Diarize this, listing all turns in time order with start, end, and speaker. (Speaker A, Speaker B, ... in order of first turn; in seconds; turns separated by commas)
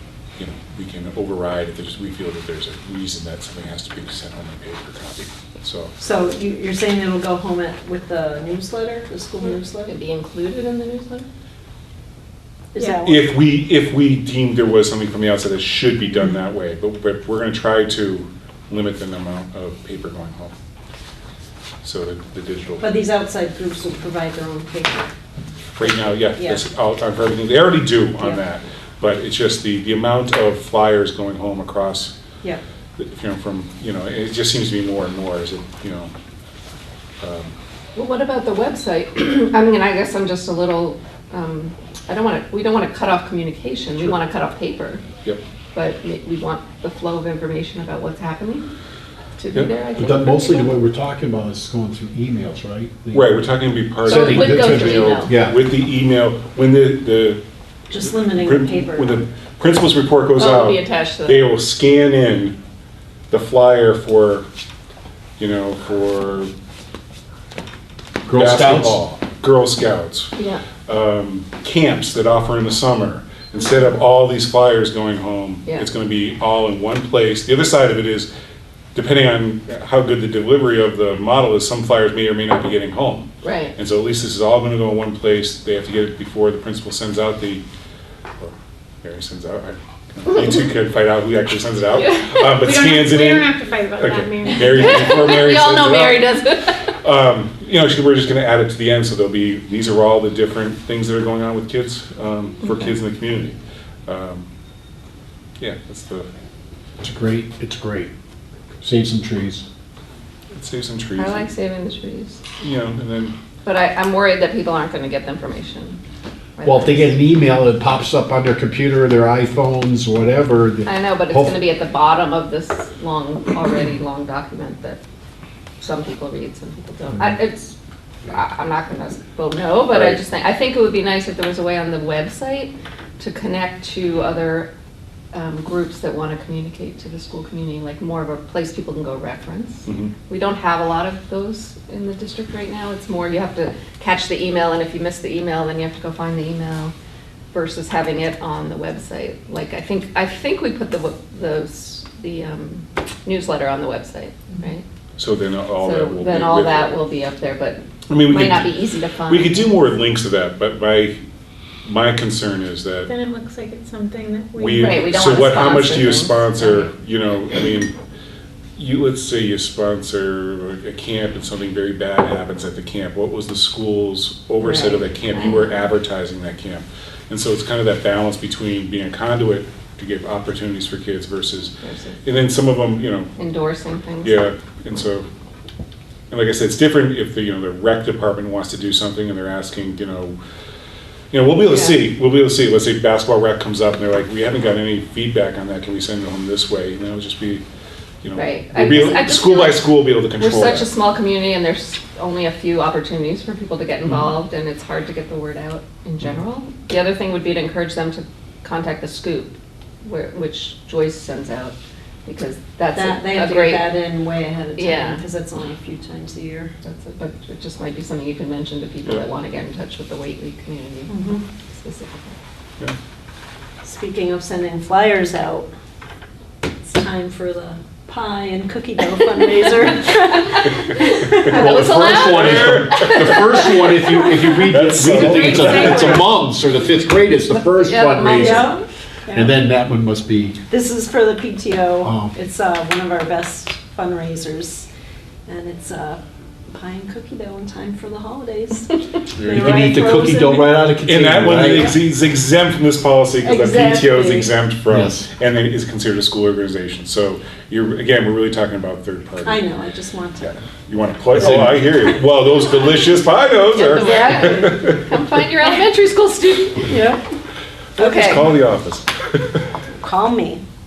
Speaker A: 0.4-5.9, Speaker B: 6.0-9.9, Speaker C: 9.8-11.2, Speaker B: 12.7-13.2, Speaker D: 12.8-13.1, Speaker A: 13.0-20.5, Speaker A: 21.8-22.9, Speaker B: 22.8-25.1, Speaker A: 25.8-32.1, Speaker B: 25.8-26.6, Speaker A: 33.0-36.1, Speaker A: 37.2-37.5, Speaker C: 37.9-45.0, Speaker C: 45.7-48.7, Speaker C: 49.4-50.7, Speaker E: 50.0-53.3, Speaker A: 53.1-57.4, Speaker E: 54.0-55.5, Speaker C: 54.0-55.3, Speaker B: 57.9-59.2, Speaker A: 58.2-62.5, Speaker C: 60.4-61.5, Speaker A: 63.3-64.5, Speaker A: 65.4-66.5, Speaker E: 68.2-69.0, Speaker A: 68.3-70.3, Speaker C: 70.3-70.6, Speaker A: 70.8-78.3, Speaker A: 78.9-87.6, Speaker C: 83.4-83.7, Speaker A: 88.4-96.3, Speaker C: 92.0-92.5, Speaker D: 92.5-95.3, Speaker C: 94.6-96.9, Speaker A: 97.0-103.5, Speaker A: 104.1-104.5, Speaker A: 105.6-106.3, Speaker E: 107.0-108.1, Speaker E: 108.8-109.6, Speaker A: 110.5-111.5, Speaker C: 111.2-112.4, Speaker A: 112.6-113.3, Speaker C: 113.6-116.0, Speaker C: 116.5-117.2, Speaker E: 116.6-121.6, Speaker C: 120.8-125.0, Speaker C: 125.8-134.7, Speaker A: 129.9-130.2, Speaker C: 135.3-146.9, Speaker A: 139.8-140.1, Speaker C: 147.5-154.8, Speaker A: 155.2-157.0, Speaker C: 155.8-159.7, Speaker A: 158.1-161.2, Speaker A: 161.8-163.1, Speaker D: 163.1-165.3, Speaker A: 164.6-167.9, Speaker C: 164.8-166.8, Speaker A: 168.8-181.7, Speaker C: 174.6-175.8, Speaker C: 181.8-182.2, Speaker A: 182.2-183.3, Speaker C: 183.4-184.5, Speaker A: 184.2-185.3, Speaker A: 186.3-190.4, Speaker A: 191.3-197.6, Speaker C: 191.7-192.0, Speaker A: 198.2-200.9, Speaker C: 198.3-213.9, Speaker A: 204.1-204.3, Speaker B: 212.9-216.7, Speaker C: 214.8-215.2, Speaker C: 216.8-222.3, Speaker B: 221.1-221.4, Speaker B: 223.8-225.7, Speaker B: 226.8-232.1, Speaker E: 231.4-238.7, Speaker C: 231.5-233.8, Speaker A: 232.2-233.7, Speaker A: 234.7-236.3, Speaker B: 235.0-236.5, Speaker C: 235.7-236.2, Speaker C: 237.5-238.8, Speaker B: 238.3-239.5, Speaker E: 239.3-240.6, Speaker B: 240.7-244.9, Speaker E: 242.0-242.3, Speaker B: 245.4-250.8, Speaker E: 249.4-252.0, Speaker A: 251.0-259.6, Speaker B: 253.4-254.5, Speaker E: 254.9-255.2, Speaker B: 259.4-260.5, Speaker A: 260.9-265.0, Speaker C: 263.7-266.9, Speaker B: 264.0-264.9, Speaker B: 266.9-267.2, Speaker C: 268.0-268.5, Speaker A: 268.0-269.6, Speaker B: 270.0-270.6